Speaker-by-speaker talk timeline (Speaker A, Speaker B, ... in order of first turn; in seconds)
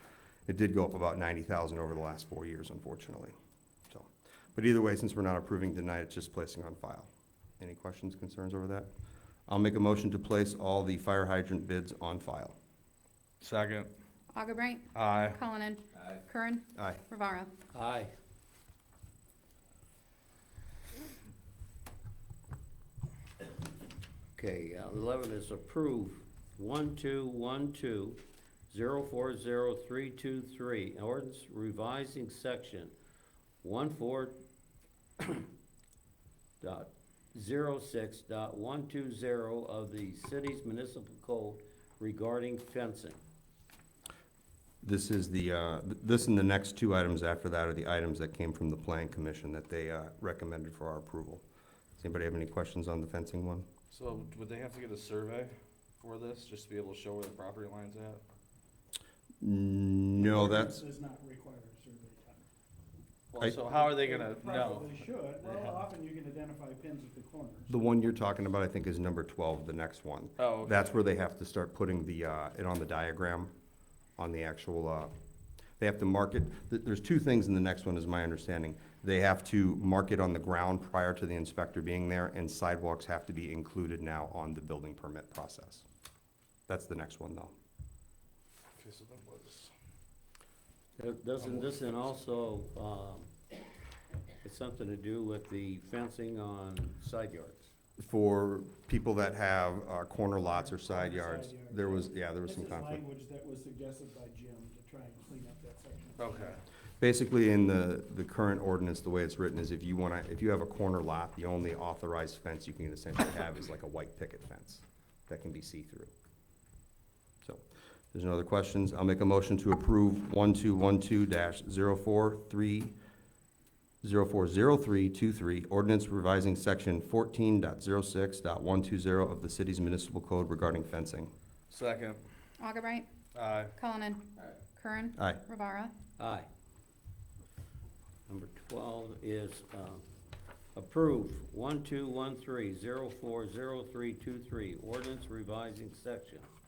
Speaker A: 0.5-3.3, 3.9-8.9, 9.5-12.6, 16.8-17.0, 44.8-51.4, 52.0-53.7, 59.4-60.8, 67.7-73.5, 74.2-75.1, 75.8-85.9, 86.7-87.5, 98.0-103.0, 107.0-116.1, 117.4-122.9, 124.0-131.3, 135.2-135.4
Speaker B: 13.4-13.9, 14.9-15.4, 53.9-58.2, 63.3-65.8, 70.4-70.9, 88.8-89.7, 106.2-106.6, 131.7-132.2, 133.3-133.8
Speaker C: 14.3-17.5, 132.6-133.1, 133.8-135.9
Speaker D: 17.7-18.1, 24.4-32.9, 33.6-34.4, 35.2-35.5, 36.6-43.2, 91.0-93.3, 94.4-97.7, 136.2-136.5, 138.3-140.0, 140.8-146.5
Speaker E: 60.2-62.5, 63.6-67.9, 100.5-106.6